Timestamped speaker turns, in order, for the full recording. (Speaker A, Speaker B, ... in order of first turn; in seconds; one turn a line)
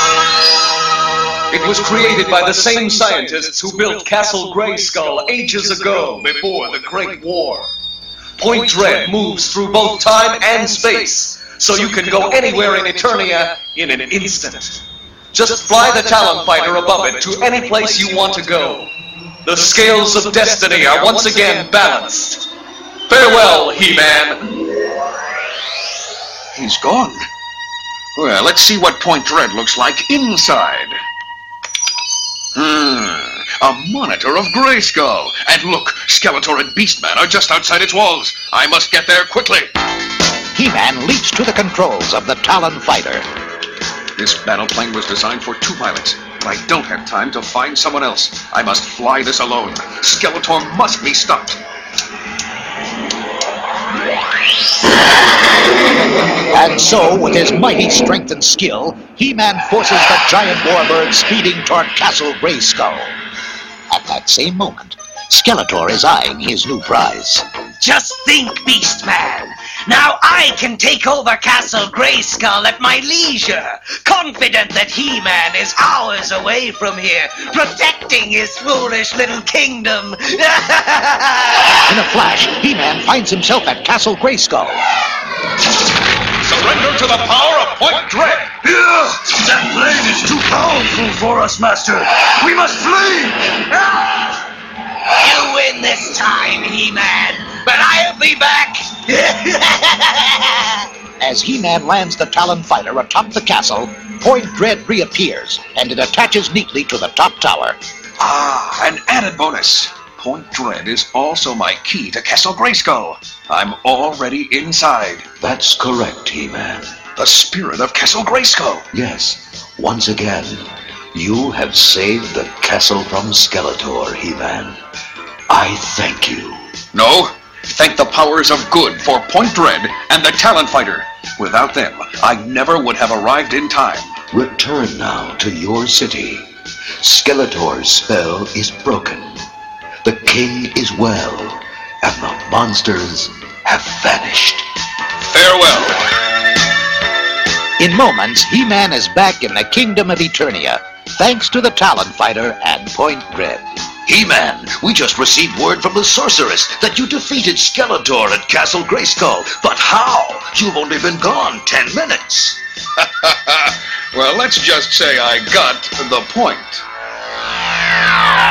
Speaker A: 1.5-7.7
Speaker A: 8.4-14.8
Speaker A: 15.3-18.9
Speaker A: 19.4-22.5
Speaker A: 23.1-24.5
Speaker B: 26.6-27.3
Speaker B: 28.2-31.0
Speaker B: 32.5-39.7
Speaker C: 40.5-43.3
Speaker B: 44.2-51.6
Speaker C: 56.5-63.1
Speaker C: 63.9-67.5
Speaker D: 67.8-81.6
Speaker C: 81.9-84.8
Speaker B: 86.4-88.5
Speaker E: 88.6-93.6
Speaker D: 95.2-99.8
Speaker C: 101.2-107.8
Speaker B: 108.2-115.3
Speaker F: 115.4-117.0
Speaker B: 117.2-118.9
Speaker F: 118.9-124.8
Speaker F: 125.5-126.7
Speaker B: 126.9-134.2
Speaker F: 134.3-136.5
Speaker F: 137.0-139.4
Speaker F: 140.0-144.7
Speaker B: 145.2-146.1
Speaker C: 147.8-153.7
Speaker F: 154.1-162.6
Speaker B: 163.0-166.8